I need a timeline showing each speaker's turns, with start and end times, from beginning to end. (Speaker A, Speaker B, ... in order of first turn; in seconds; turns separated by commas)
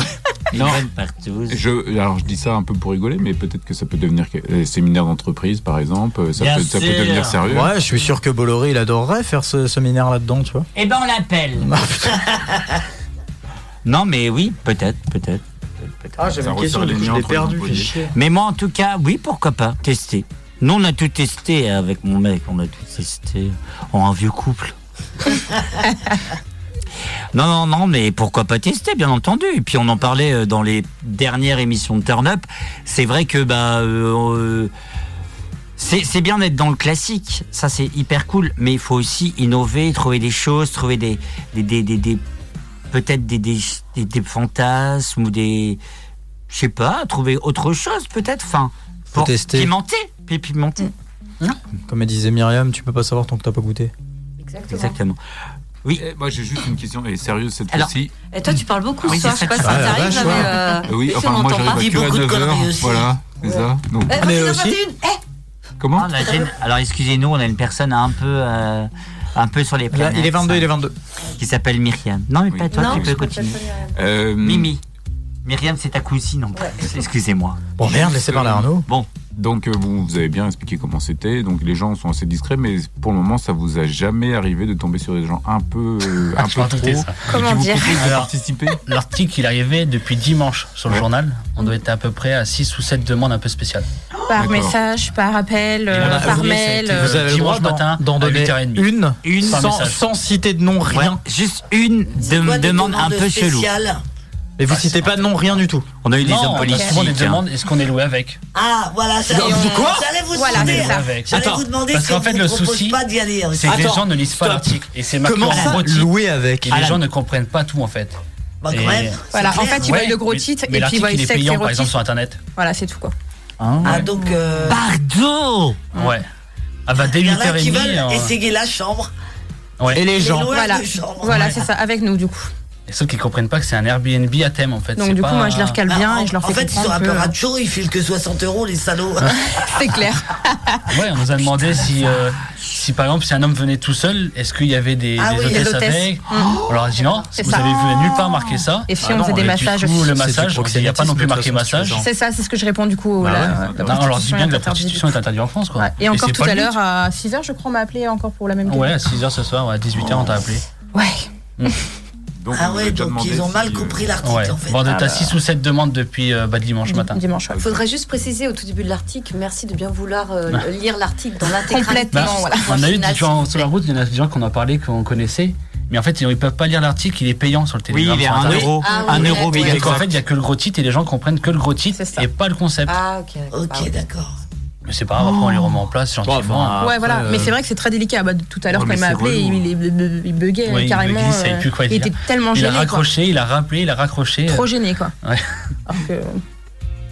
Speaker A: 0.5-1.6, Speaker B: 0.5-0.8, Speaker B: 1.5-7.7, Speaker A: 6.4-7.4, Speaker C: 7.5-10.7, Speaker A: 10.8-11.7, Speaker C: 11.6-12.6, Speaker A: 13.8-17.1, Speaker C: 16.2-18.1, Speaker B: 16.4-18.0, Speaker A: 18.1-24.7, Speaker A: 27.3-34.7, Speaker A: 35.8-42.2, Speaker A: 42.9-45.8, Speaker A: 46.5-50.9, Speaker C: 49.1-49.7, Speaker C: 51.9-53.9, Speaker D: 54.4-55.0, Speaker A: 54.7-55.2, Speaker B: 56.0-58.1, Speaker D: 58.3-61.9, Speaker A: 59.1-60.5, Speaker C: 59.6-60.5, Speaker B: 60.9-64.3, Speaker E: 61.7-63.1, Speaker D: 63.4-65.2, Speaker C: 64.1-64.8, Speaker B: 65.8-66.3, Speaker A: 65.9-70.7, Speaker C: 69.9-70.9, Speaker A: 71.4-73.6, Speaker B: 72.5-74.7, Speaker D: 72.7-74.0, Speaker A: 74.4-74.8, Speaker A: 75.4-77.6, Speaker C: 77.8-78.8, Speaker B: 77.8-78.7, Speaker B: 79.3-88.8, Speaker F: 86.4-87.2, Speaker G: 87.3-88.2, Speaker F: 88.0-88.3, Speaker F: 88.8-93.9, Speaker G: 94.3-97.2, Speaker B: 94.3-94.8, Speaker F: 95.9-100.0, Speaker C: 95.9-101.2, Speaker A: 99.2-99.7, Speaker A: 100.9-103.7, Speaker E: 102.2-104.0, Speaker C: 104.6-105.9, Speaker A: 106.0-107.4, Speaker F: 106.2-108.4, Speaker G: 106.6-107.0, Speaker E: 108.5-113.9, Speaker C: 109.3-110.1, Speaker G: 109.3-111.2, Speaker F: 110.5-111.4, Speaker C: 111.3-111.7, Speaker F: 111.9-116.1, Speaker C: 113.7-117.0, Speaker A: 115.4-115.8, Speaker F: 116.6-118.2, Speaker E: 118.6-120.0, Speaker F: 118.7-122.4, Speaker G: 119.3-121.9, Speaker G: 122.5-123.1, Speaker C: 123.6-124.0, Speaker F: 123.8-124.1, Speaker E: 123.8-124.8, Speaker A: 124.7-125.8, Speaker F: 125.9-126.3, Speaker F: 126.9-128.3, Speaker E: 127.0-129.1, Speaker F: 129.8-130.0, Speaker E: 129.8-131.6, Speaker C: 129.9-130.5, Speaker G: 130.5-132.5, Speaker F: 131.2-131.6, Speaker F: 132.9-135.8, Speaker G: 135.0-137.3, Speaker E: 135.9-139.4, Speaker G: 139.3-140.9, Speaker F: 140.9-152.0, Speaker E: 145.2-145.7, Speaker G: 145.5-146.6, Speaker G: 147.3-150.1, Speaker C: 149.0-152.1, Speaker G: 152.0-155.1, Speaker C: 153.2-153.7, Speaker B: 153.5-154.0, Speaker F: 153.8-156.7, Speaker G: 155.8-158.9, Speaker F: 158.6-160.6, Speaker G: 160.9-161.7, Speaker B: 162.4-164.1, Speaker E: 162.5-164.9, Speaker F: 164.2-167.2, Speaker G: 164.9-165.4, Speaker G: 166.9-167.8, Speaker D: 167.5-173.7, Speaker G: 171.5-172.8, Speaker F: 172.1-183.0, Speaker A: 177.9-180.1, Speaker C: 178.4-180.1, Speaker D: 178.8-179.8, Speaker G: 181.9-182.2, Speaker D: 182.9-183.9, Speaker E: 183.5-184.3, Speaker F: 184.8-186.8, Speaker C: 186.2-187.6, Speaker G: 186.8-193.1, Speaker A: 188.7-189.7, Speaker F: 190.6-194.7, Speaker G: 194.4-195.1, Speaker F: 195.2-195.5, Speaker G: 195.8-196.4